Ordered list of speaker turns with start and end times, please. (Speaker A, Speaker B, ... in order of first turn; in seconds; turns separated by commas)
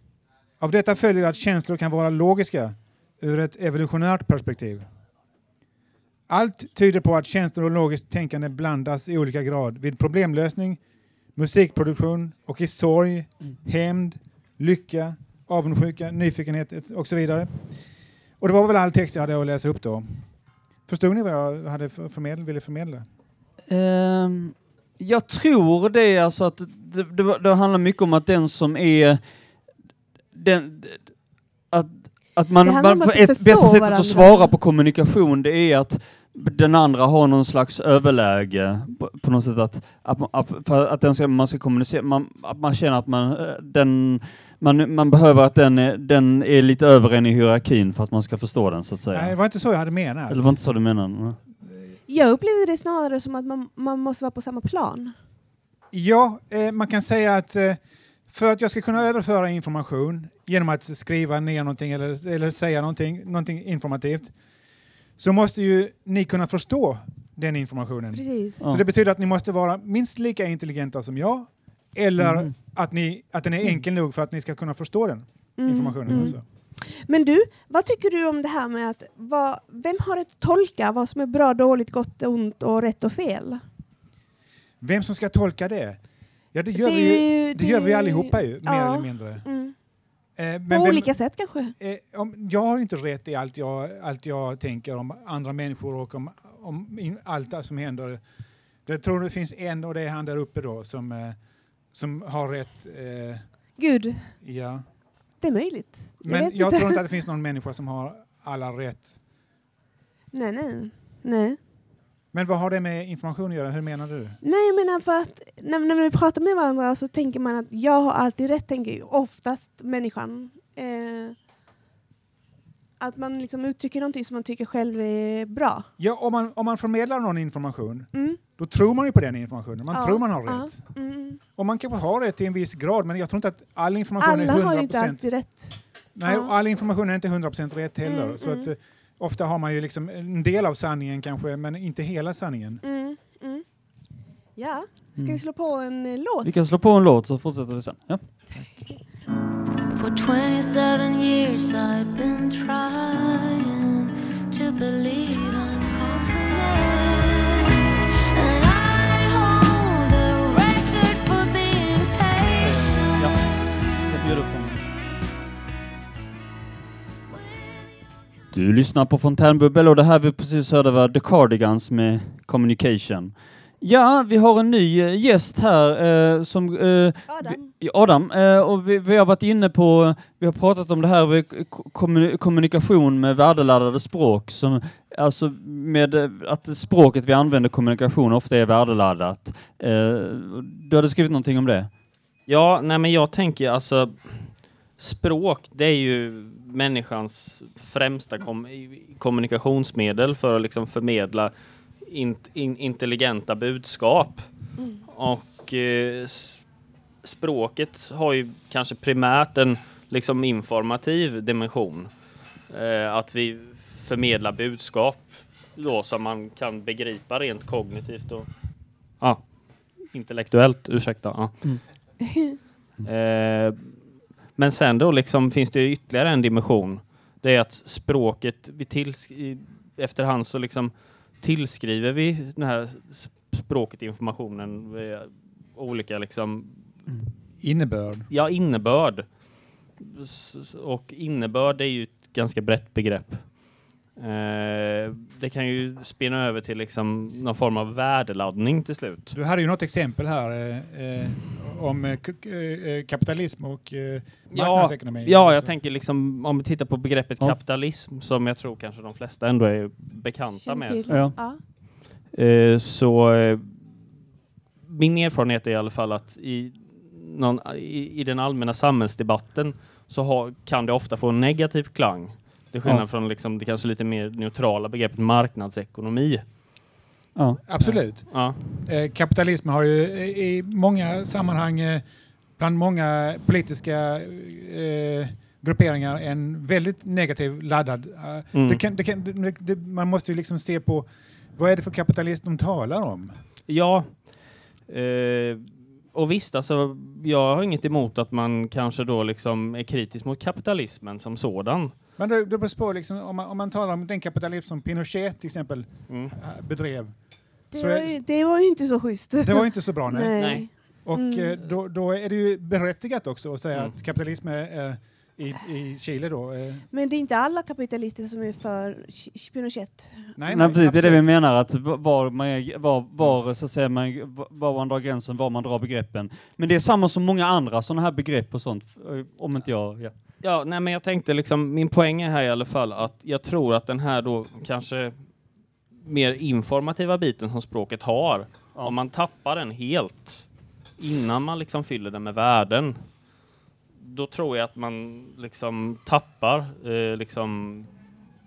Speaker A: 0.6-4.9, Speaker A: 6.3-10.8, Speaker A: 11.3-17.8, Speaker A: 18.4-23.1, Speaker B: 23.7-29.2, Speaker B: 30.3-49.4, Speaker C: 32.6-34.5, Speaker A: 49.1-50.6, Speaker B: 50.3-51.4, Speaker A: 51.6-52.0, Speaker C: 52.1-55.2, Speaker A: 55.9-64.3, Speaker A: 65.2-76.4, Speaker C: 68.1-68.6, Speaker B: 72.2-72.5, Speaker C: 75.6-83.6, Speaker A: 84.8-86.0, Speaker A: 86.5-89.5, Speaker C: 86.8-89.8, Speaker A: 90.4-98.2, Speaker C: 90.7-91.7, Speaker A: 98.8-103.8, Speaker C: 103.8-104.4, Speaker A: 104.4-104.8, Speaker C: 105.4-107.0, Speaker A: 106.2-109.2, Speaker C: 110.3-111.6, Speaker A: 112.3-114.4, Speaker C: 114.4-121.4, Speaker C: 123.0-125.9, Speaker A: 126.0-135.5, Speaker C: 128.1-128.4, Speaker C: 129.9-131.4, Speaker C: 134.2-136.5, Speaker A: 136.1-142.8, Speaker C: 138.0-138.7, Speaker C: 142.8-143.7, Speaker C: 144.6-146.5, Speaker B: 145.2-145.4, Speaker B: 146.4-148.3, Speaker C: 148.7-149.0, Speaker D: 149.9-164.2, Speaker B: 162.5-163.5, Speaker B: 164.1-164.8, Speaker B: 168.5-191.9, Speaker C: 177.3-177.7, Speaker E: 192.5-206.7, Speaker C: 204.8-205.0, Speaker E: 207.2-218.5, Speaker E: 219.2-221.7, Speaker C: 222.3-222.6, Speaker E: 223.0-236.9, Speaker A: 237.6-238.3, Speaker E: 238.3-249.3, Speaker A: 249.3-255.7, Speaker E: 254.5-261.4, Speaker C: 260.6-261.6, Speaker B: 261.1-261.3, Speaker E: 262.3-264.0, Speaker E: 264.9-276.4, Speaker B: 277.4-277.6, Speaker A: 277.7-282.1, Speaker E: 277.8-278.6, Speaker A: 282.6-293.4, Speaker E: 288.5-288.8, Speaker E: 293.7-301.9, Speaker A: 302.2-307.1, Speaker E: 306.1-306.4, Speaker A: 307.7-308.2, Speaker C: 307.7-311.6, Speaker A: 309.4-316.9, Speaker E: 310.4-310.7, Speaker C: 316.9-320.4, Speaker A: 320.4-321.3, Speaker B: 320.5-330.1, Speaker E: 330.4-335.3, Speaker E: 336.0-343.1, Speaker E: 344.0-348.0